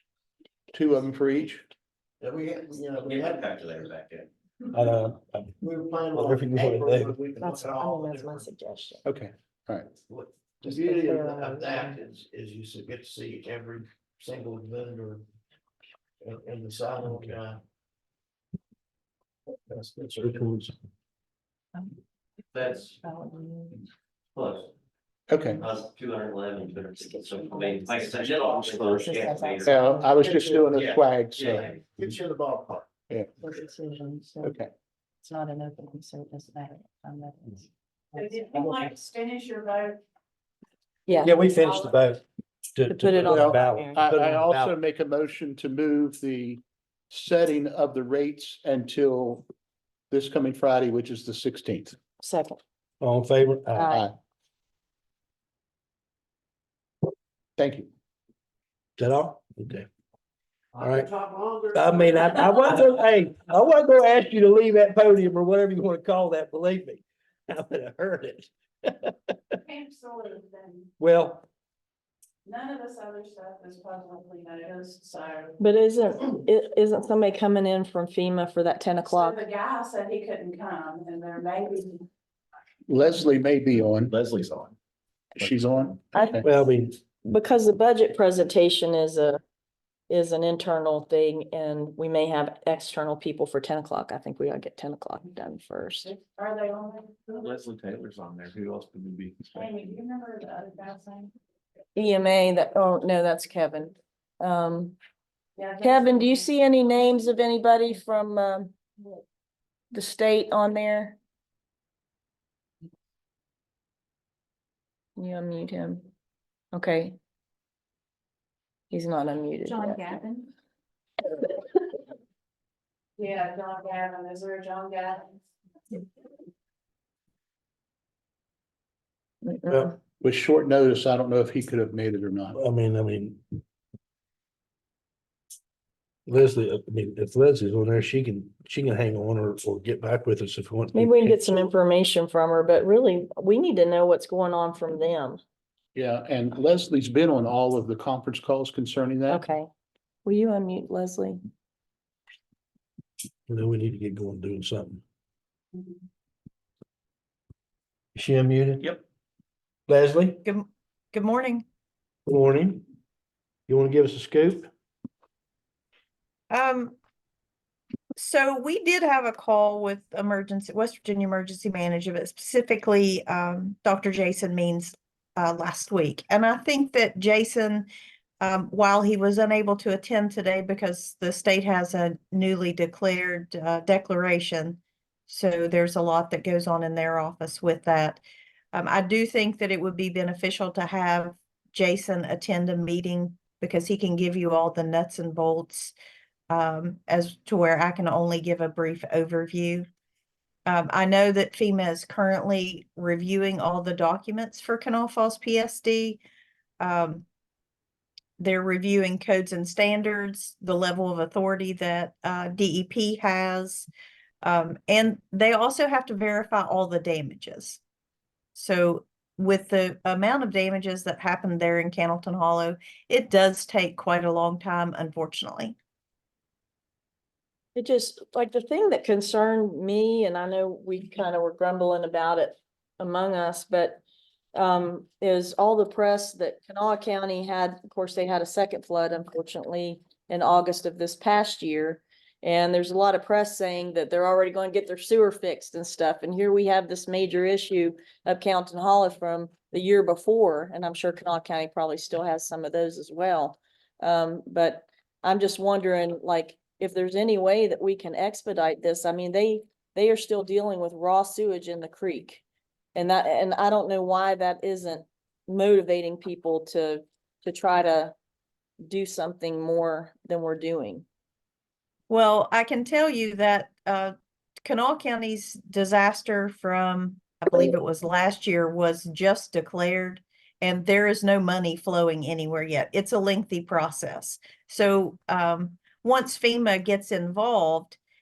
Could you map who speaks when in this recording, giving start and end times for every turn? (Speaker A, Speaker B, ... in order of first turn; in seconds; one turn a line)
Speaker A: 0.7-1.7
Speaker B: 2.2-3.6
Speaker C: 3.0-4.3
Speaker D: 4.7-5.6
Speaker B: 5.6-8.5
Speaker D: 6.1-7.2
Speaker E: 7.4-9.0
Speaker A: 9.1-9.9
Speaker B: 10.1-15.2
Speaker E: 10.7-12.0
Speaker B: 16.2-17.6
Speaker D: 17.1-17.3
Speaker D: 19.7-20.7
Speaker E: 23.0-23.8
Speaker C: 24.4-24.7
Speaker A: 25.3-25.6
Speaker C: 25.7-29.8
Speaker E: 27.0-28.2
Speaker E: 28.8-30.0
Speaker A: 29.6-31.7
Speaker B: 30.2-31.0
Speaker C: 31.3-31.9
Speaker B: 32.0-32.9
Speaker E: 33.4-34.5
Speaker A: 34.4-34.7
Speaker E: 35.2-37.6
Speaker F: 38.1-40.0
Speaker E: 38.5-38.9
Speaker E: 41.1-41.3
Speaker D: 41.2-42.2
Speaker F: 41.3-41.9
Speaker D: 42.7-44.7
Speaker E: 42.9-44.0
Speaker A: 43.3-49.5
Speaker A: 50.1-52.0
Speaker E: 52.2-52.6
Speaker D: 53.0-54.0
Speaker E: 53.7-54.1
Speaker A: 53.9-54.1
Speaker A: 57.6-57.9
Speaker D: 59.0-59.9
Speaker D: 60.8-61.1
Speaker B: 60.8-62.3
Speaker D: 61.7-69.3
Speaker F: 69.7-70.9
Speaker D: 71.0-71.5
Speaker F: 72.5-75.6
Speaker E: 75.6-79.4
Speaker F: 79.1-82.0
Speaker A: 82.9-84.2
Speaker C: 84.1-84.7
Speaker A: 85.4-86.5
Speaker E: 86.2-86.4
Speaker D: 86.4-87.0
Speaker E: 87.2-89.4
Speaker E: 90.1-96.1
Speaker F: 96.1-97.5
Speaker C: 97.3-99.7
Speaker F: 99.5-101.3
Speaker E: 102.0-105.0
Speaker F: 105.6-106.4
Speaker E: 105.8-108.8
Speaker E: 109.9-111.2
Speaker E: 115.2-116.1
Speaker E: 116.7-117.2
Speaker E: 118.9-120.2
Speaker F: 119.7-120.5
Speaker F: 123.2-125.4
Speaker E: 129.4-129.9
Speaker D: 129.7-129.9
Speaker A: 130.2-132.6
Speaker D: 132.6-133.4
Speaker D: 136.3-141.4
Speaker E: 140.9-145.4
Speaker A: 145.9-149.4
Speaker E: 149.3-149.7
Speaker E: 150.2-151.4
Speaker D: 153.5-155.0
Speaker D: 158.2-159.0
Speaker D: 159.9-160.4
Speaker G: 160.4-161.7
Speaker D: 162.3-162.8
Speaker D: 163.7-164.7
Speaker G: 166.5-167.0
Speaker G: 168.2-177.9
Speaker G: 178.4-188.2
Speaker G: 188.7-195.9
Speaker G: 196.5-199.9
Speaker G: 200.7-206.2
Speaker G: 206.8-207.2
Speaker G: 208.4-213.9
Speaker G: 214.4-217.8
Speaker G: 218.6-225.8
Speaker E: 227.8-234.0
Speaker E: 234.6-262.4
Speaker E: 262.9-268.1
Speaker E: 268.8-271.1
Speaker G: 272.1-274.1
Speaker G: 274.6-288.0